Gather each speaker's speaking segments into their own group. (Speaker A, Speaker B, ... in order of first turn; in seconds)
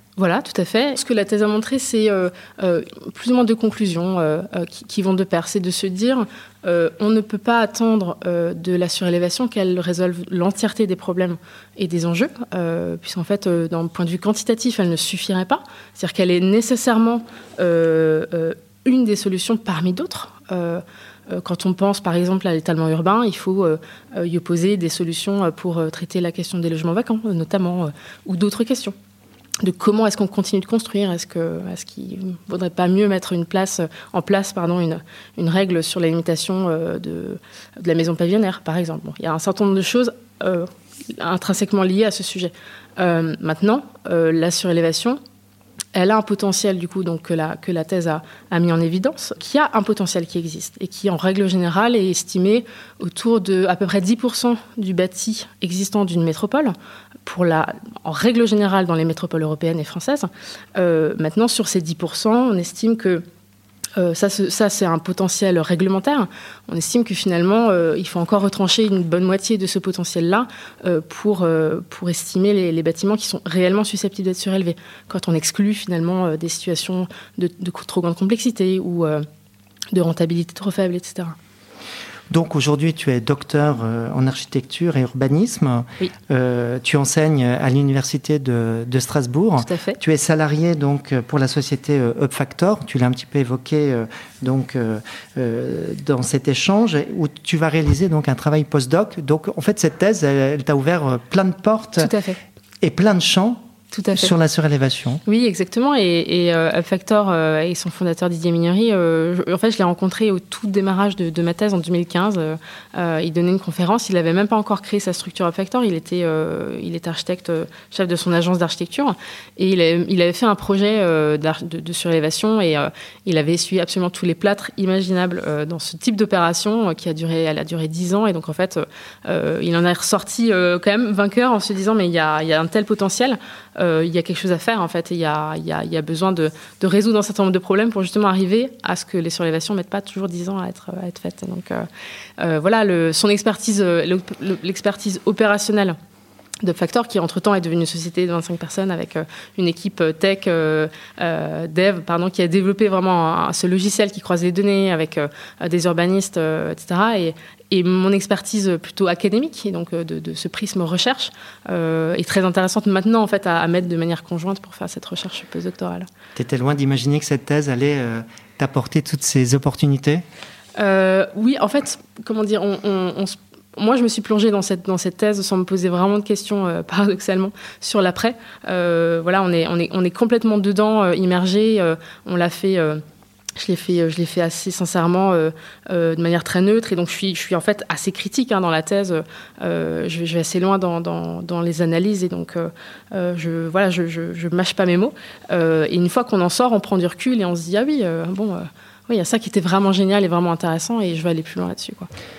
Speaker A: 0.2-28.9, 29.6-45.2, 45.9-56.7, 57.2-63.2, 64.0-79.2, 79.9-81.3, 89.6-90.0, 102.0-102.4, 103.9-104.3, 105.2-141.9, 142.4-145.9, 146.6-166.1, 170.8-183.0, 183.6-202.1
Speaker B: 82.3-102.1, 102.8-103.6, 104.1-105.2, 166.3-170.2